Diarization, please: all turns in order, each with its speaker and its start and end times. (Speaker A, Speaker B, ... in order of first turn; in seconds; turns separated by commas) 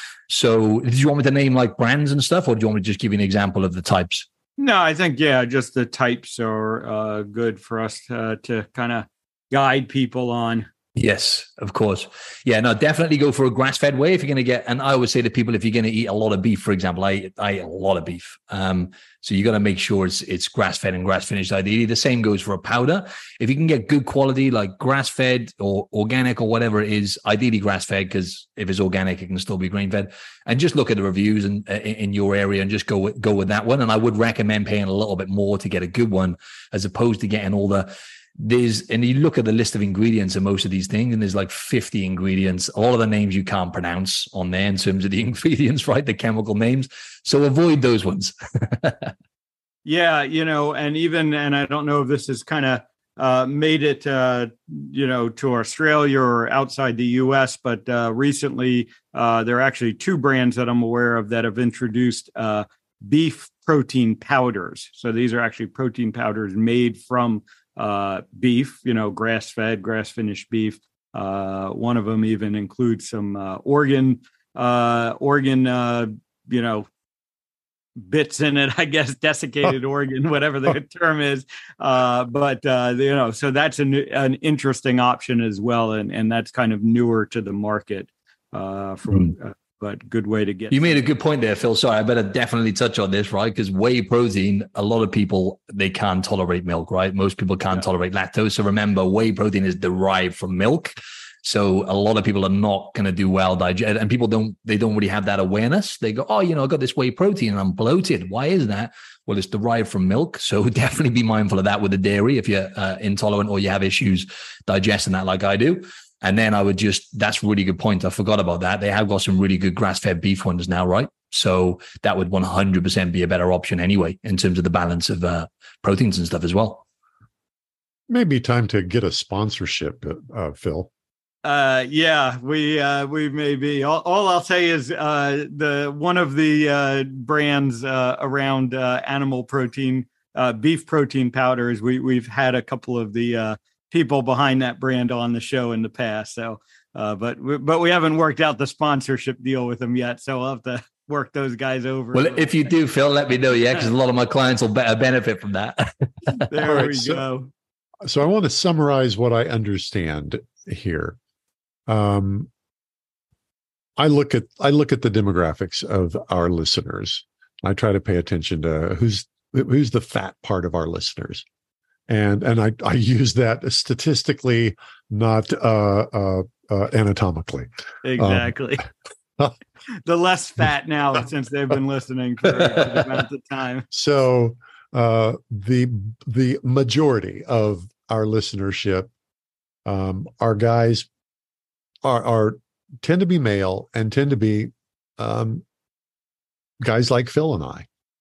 Speaker A: 0.3-4.3, Speaker B: 4.6-10.7, Speaker A: 11.0-49.1, Speaker B: 49.9-76.9, Speaker B: 78.0-91.0, Speaker A: 90.7-126.8, Speaker C: 128.1-130.9, Speaker B: 131.4-152.7, Speaker A: 152.1-156.5, Speaker B: 156.5-157.5, Speaker C: 156.7-157.2, Speaker C: 158.0-161.2, Speaker C: 161.9-162.5, Speaker C: 164.0-171.4, Speaker C: 172.1-178.5, Speaker B: 178.0-178.9, Speaker B: 180.0-183.9, Speaker C: 183.9-189.1, Speaker C: 189.8-191.1, Speaker C: 192.0-195.6, Speaker C: 196.8-197.9